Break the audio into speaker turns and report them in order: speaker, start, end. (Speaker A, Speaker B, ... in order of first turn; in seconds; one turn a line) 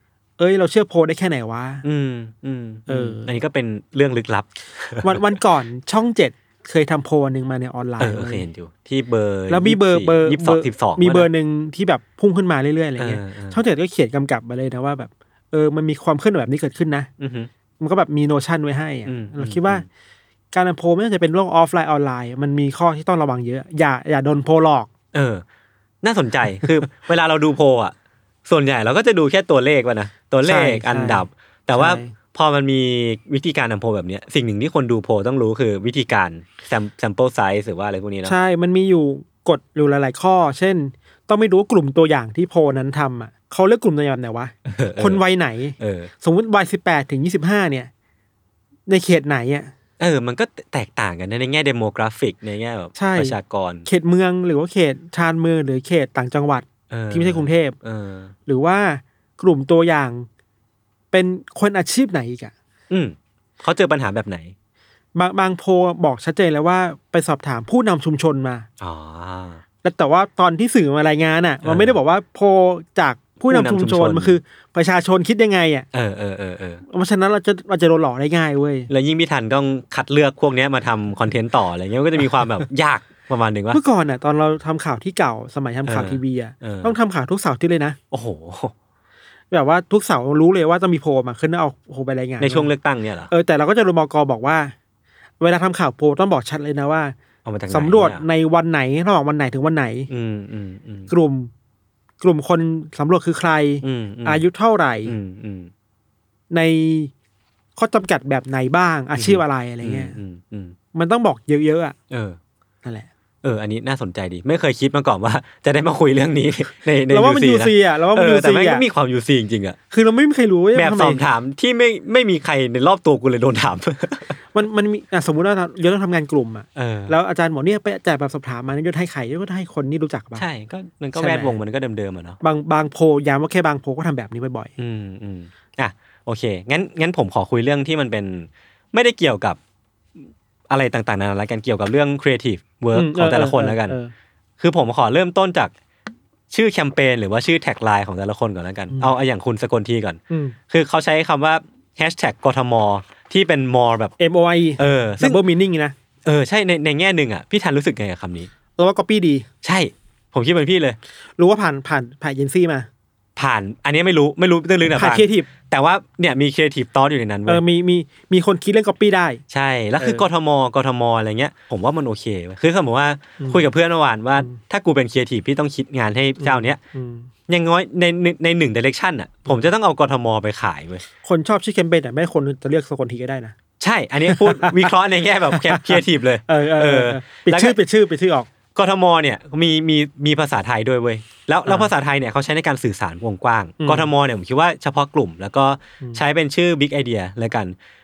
Speaker A: 0.4-1.8
Speaker B: 1.8-5.3
Speaker A: 2.9-3.3
Speaker A: 5.0-8.4
Speaker B: 8.0-11.3
Speaker A: 9.5-17.1
Speaker B: 13.0-13.6
Speaker B: 17.2-17.5
Speaker A: 17.8-19.9
Speaker B: 19.1-19.9
Speaker A: 20.5-24.9
Speaker B: 25.1-25.4
Speaker B: 26.0-27.9
Speaker B: 28.5-38.4
Speaker A: 30.4-32.1
Speaker A: 38.2-47.9
Speaker B: 44.6-45.2
Speaker B: 45.8-46.1
Speaker A: 48.9-49.7
Speaker B: 50.0-53.9
Speaker A: 53.0-57.8
Speaker B: 56.9-58.3
Speaker A: 58.5-60.3
Speaker A: 61.1-62.5
Speaker B: 62.9-64.5
Speaker A: 65.2-68.7
Speaker B: 68.8-69.6
Speaker A: 69.8-75.9
Speaker B: 71.6-72.0
Speaker B: 73.5-74.4
Speaker B: 75.9-76.8
Speaker A: 76.9-78.9
Speaker B: 78.9-83.8
Speaker A: 83.7-88.0
Speaker B: 85.9-86.9
Speaker B: 88.1-88.7
Speaker A: 89.5-92.7
Speaker B: 92.4-93.3
Speaker A: 93.3-94.7
Speaker A: 95.4-97.2
Speaker B: 97.5-98.2
Speaker A: 97.7-100.1
Speaker B: 100.1-101.1
Speaker A: 101.1-101.5
Speaker A: 102.2-105.2
Speaker B: 103.8-104.4
Speaker B: 105.0-105.7
Speaker A: 106.5-107.1
Speaker A: 107.8-110.2
Speaker B: 109.2-110.8
Speaker A: 110.9-112.0
Speaker B: 112.1-112.4
Speaker A: 112.8-113.1
Speaker B: 113.4-119.8
Speaker A: 117.1-118.8
Speaker A: 119.9-121.2
Speaker B: 120.7-124.4
Speaker A: 124.5-130.4
Speaker B: 126.8-127.2
Speaker B: 130.4-132.4
Speaker A: 131.2-131.6
Speaker A: 132.4-134.7
Speaker B: 134.8-139.6
Speaker B: 140.7-144.0
Speaker A: 142.9-144.1
Speaker B: 144.6-145.7
Speaker B: 146.5-154.1
Speaker A: 148.9-149.2
Speaker A: 150.3-150.6
Speaker A: 154.2-155.9
Speaker B: 154.8-155.4
Speaker B: 156.2-158.5
Speaker A: 158.8-159.5
Speaker B: 159.6-161.0
Speaker A: 161.4-162.9
Speaker B: 163.4-167.6
Speaker A: 164.9-165.5
Speaker A: 167.5-169.4
Speaker B: 169.5-176.8
Speaker A: 173.4-173.7
Speaker A: 176.4-177.3
Speaker B: 177.5-181.0
Speaker A: 181.2-183.6
Speaker B: 183.8-187.8
Speaker A: 184.3-184.9
Speaker A: 185.5-188.5
Speaker B: 188.8-197.8
Speaker A: 193.8-194.1